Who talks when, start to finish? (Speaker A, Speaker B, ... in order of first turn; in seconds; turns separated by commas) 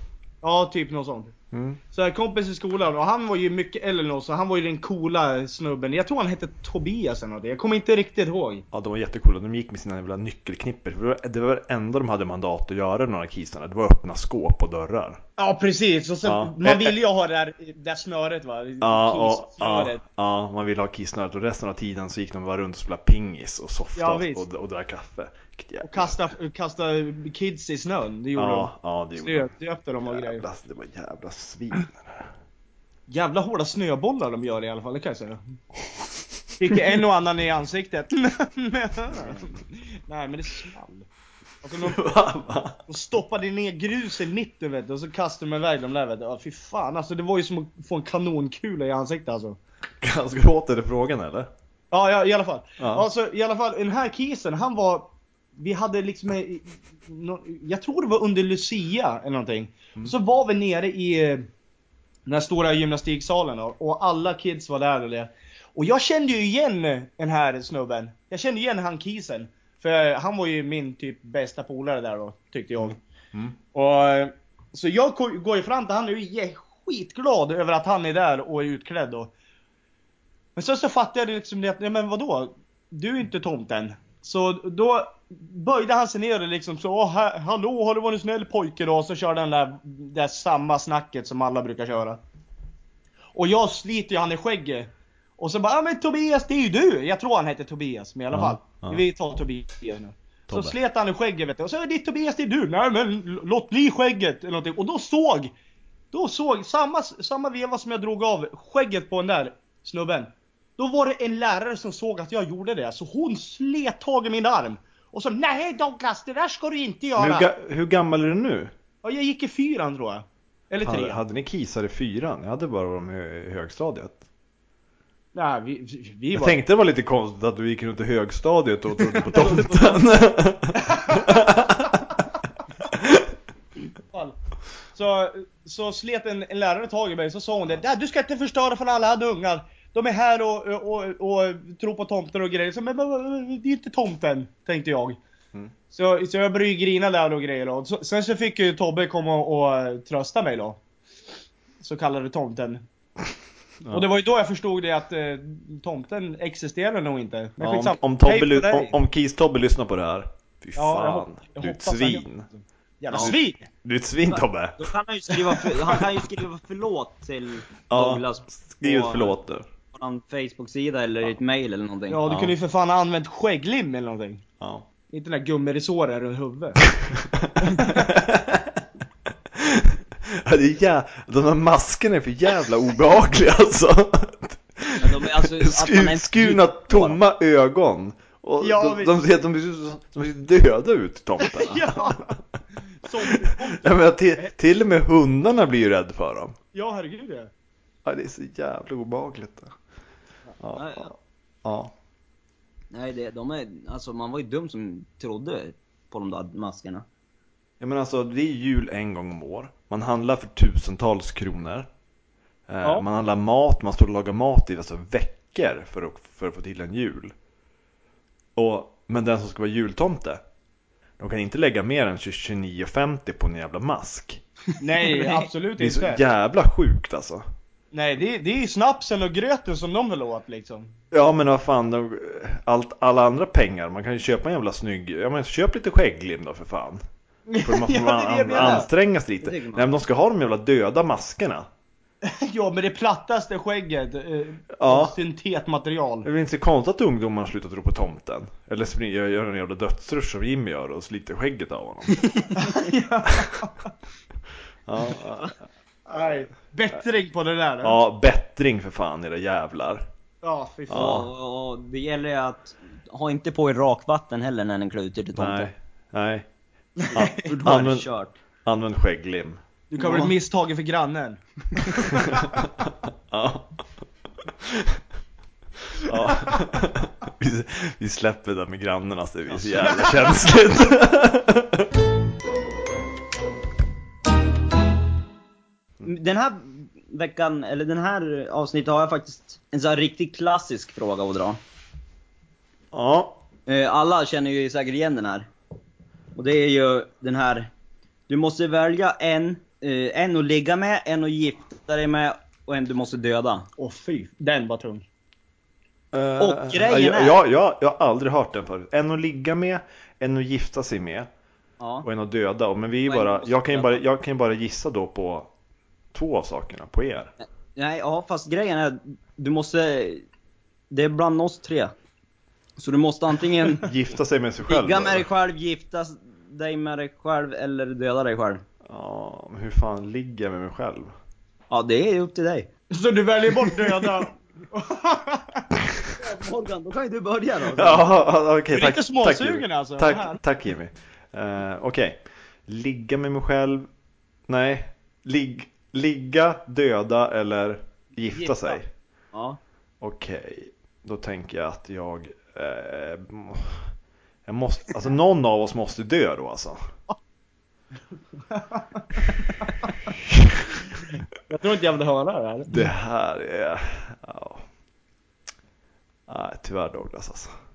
Speaker A: 0.4-1.3, Speaker B: 1.5-1.8, Speaker A: 1.9-8.7, Speaker B: 8.7-15.2, Speaker A: 15.4-20.0, Speaker B: 16.2-16.9, Speaker B: 18.8-26.2, Speaker A: 23.9-24.4, Speaker A: 25.8-30.4, Speaker B: 28.4-29.5, Speaker B: 30.1-32.3, Speaker A: 33.1-35.4, Speaker A: 36.6-41.1, Speaker A: 41.6-42.1, Speaker B: 41.8-42.8, Speaker A: 42.9-49.6, Speaker B: 50.0-51.5, Speaker A: 51.9-61.5, Speaker B: 52.8-53.0, Speaker A: 62.2-73.0, Speaker A: 73.7-79.3, Speaker A: 80.5-92.2, Speaker A: 93.3-105.5, Speaker B: 98.3-99.0, Speaker B: 100.5-100.8, Speaker A: 106.1-117.5, Speaker B: 117.2-118.7, Speaker A: 119.0-121.2, Speaker B: 120.8-124.2, Speaker A: 125.3-126.6, Speaker B: 126.3-132.0, Speaker A: 129.3-129.6, Speaker C: 129.4-129.9, Speaker A: 130.9-131.4, Speaker B: 132.9-133.3, Speaker A: 134.1-134.4, Speaker A: 134.9-145.2, Speaker A: 145.9-150.8, Speaker A: 151.8-152.8, Speaker A: 153.9-159.0, Speaker B: 157.6-162.5, Speaker A: 160.8-163.7, Speaker B: 163.1-164.9, Speaker C: 164.3-169.4, Speaker B: 167.9-169.7, Speaker C: 169.9-172.3, Speaker A: 172.1-174.4, Speaker B: 174.6-174.8, Speaker A: 175.1-176.8, Speaker B: 177.0-178.8, Speaker A: 177.6-178.1, Speaker B: 179.5-192.4, Speaker C: 185.0-187.2, Speaker A: 188.6-189.2, Speaker A: 191.4-192.3, Speaker A: 193.0-194.5, Speaker B: 193.2-196.6, Speaker A: 196.7-197.5, Speaker B: 198.0-199.7, Speaker B: 200.6-201.9, Speaker C: 200.7-201.1, Speaker C: 202.9-207.0, Speaker B: 207.8-211.9, Speaker B: 212.7-217.3, Speaker B: 218.6-220.4, Speaker B: 221.2-224.4, Speaker A: 224.8-226.2, Speaker C: 225.1-225.5, Speaker B: 225.8-227.4, Speaker A: 227.9-230.9, Speaker B: 231.1-237.0, Speaker A: 237.5-238.9, Speaker B: 237.6-241.7, Speaker C: 238.5-238.9, Speaker C: 239.4-239.9, Speaker A: 242.2-246.3, Speaker B: 244.7-245.2, Speaker B: 246.2-252.2, Speaker C: 252.2-252.5, Speaker A: 252.6-253.9, Speaker B: 253.3-253.6, Speaker B: 254.9-255.6, Speaker A: 256.1-258.0, Speaker B: 257.8-260.1, Speaker A: 260.4-261.2, Speaker B: 260.9-261.3, Speaker C: 260.9-265.7, Speaker B: 265.4-266.4, Speaker A: 267.0-267.3, Speaker B: 267.1-268.1, Speaker C: 267.1-268.3, Speaker B: 268.6-269.6, Speaker A: 269.9-272.4, Speaker C: 270.0-270.3, Speaker B: 272.1-273.8, Speaker B: 274.6-275.0, Speaker B: 275.9-281.9, Speaker A: 279.6-280.4, Speaker C: 286.0-291.6, Speaker B: 292.9-293.4, Speaker C: 293.7-295.5, Speaker C: 296.3-297.7, Speaker C: 298.3-303.7, Speaker A: 303.8-305.0, Speaker B: 306.1-311.3, Speaker C: 306.4-307.4, Speaker C: 311.8-312.1, Speaker B: 312.0-315.5, Speaker C: 313.1-314.0, Speaker B: 316.1-317.3, Speaker C: 317.7-320.2, Speaker C: 320.9-321.9, Speaker C: 322.8-323.9, Speaker B: 323.8-325.3, Speaker C: 324.7-328.6, Speaker B: 328.9-331.1, Speaker C: 331.7-332.7, Speaker A: 332.9-335.7, Speaker C: 336.1-338.1, Speaker B: 337.8-343.9, Speaker A: 338.7-340.4, Speaker B: 344.5-348.9, Speaker A: 348.3-348.8, Speaker C: 349.3-349.6, Speaker B: 350.0-353.9, Speaker B: 354.4-356.9, Speaker A: 358.5-359.6, Speaker B: 360.3-360.5, Speaker A: 361.5-362.8, Speaker B: 362.7-364.6, Speaker B: 366.3-367.5